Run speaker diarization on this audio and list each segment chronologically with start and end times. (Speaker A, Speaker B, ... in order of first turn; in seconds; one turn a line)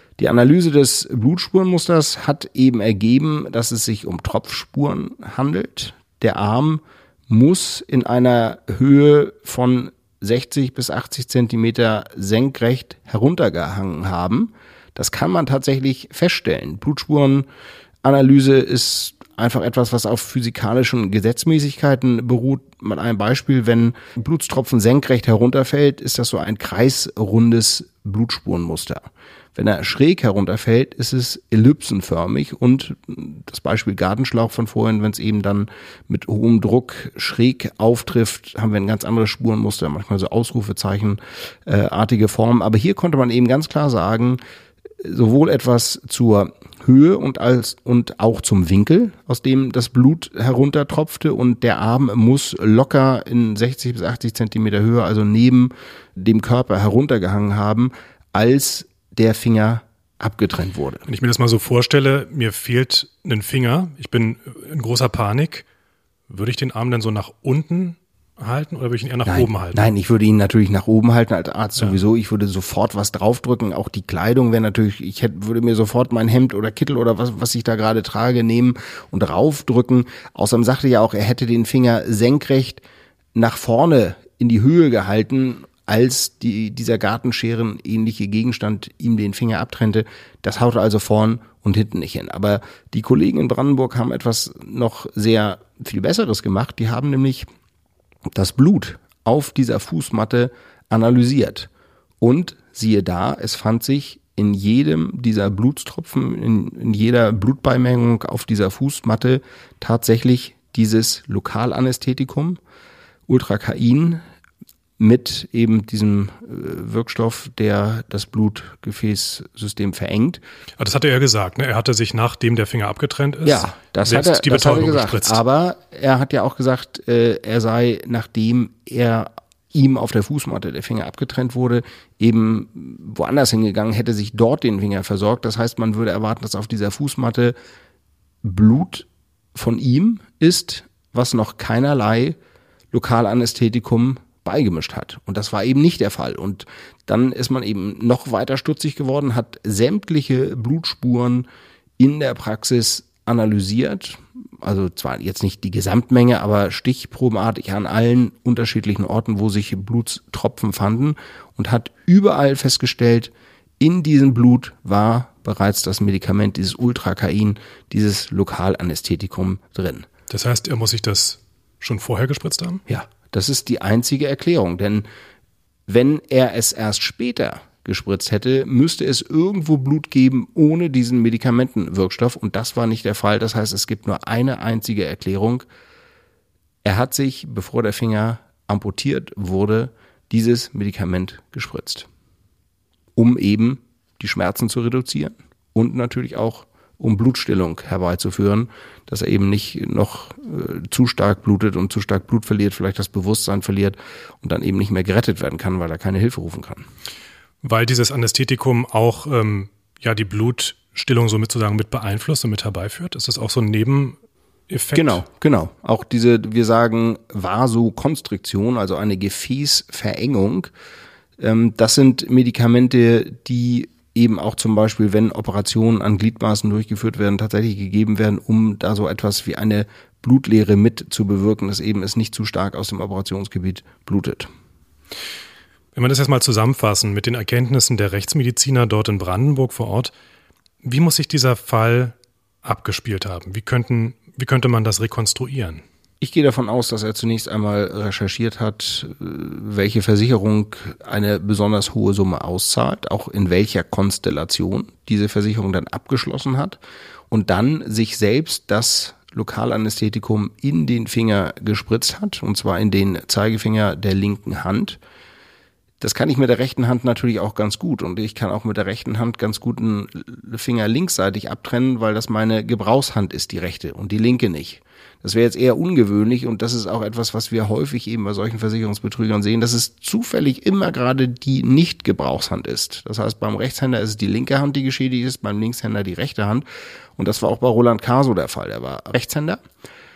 Speaker A: 0.2-17.5
Speaker A: 18.0-44.4
Speaker A: 45.0-61.1
Speaker B: 61.1-65.7
Speaker B: 66.3-69.9
Speaker A: 69.3-82.8
Speaker A: 83.3-97.5
Speaker A: 98.3-101.7
Speaker A: 102.2-112.6
Speaker A: 113.3-114.2
Speaker A: 115.0-120.4
Speaker B: 120.8-125.4
Speaker A: 123.5-137.6
Speaker A: 138.4-142.4
Speaker A: 142.9-151.5
Speaker A: 152.0-170.1
Speaker B: 170.3-172.8
Speaker A: 172.9-175.1
Speaker A: 175.9-185.7
Speaker A: 186.8-192.1
Speaker A: 193.2-206.9
Speaker B: 207.6-214.2
Speaker B: 214.7-215.2
Speaker A: 214.9-220.7
Speaker A: 221.4-234.5
Speaker B: 235.9-240.1
Speaker B: 240.8-245.8
Speaker A: 246.2-256.8
Speaker A: 257.3-265.0
Speaker A: 266.0-286.7
Speaker A: 287.2-289.6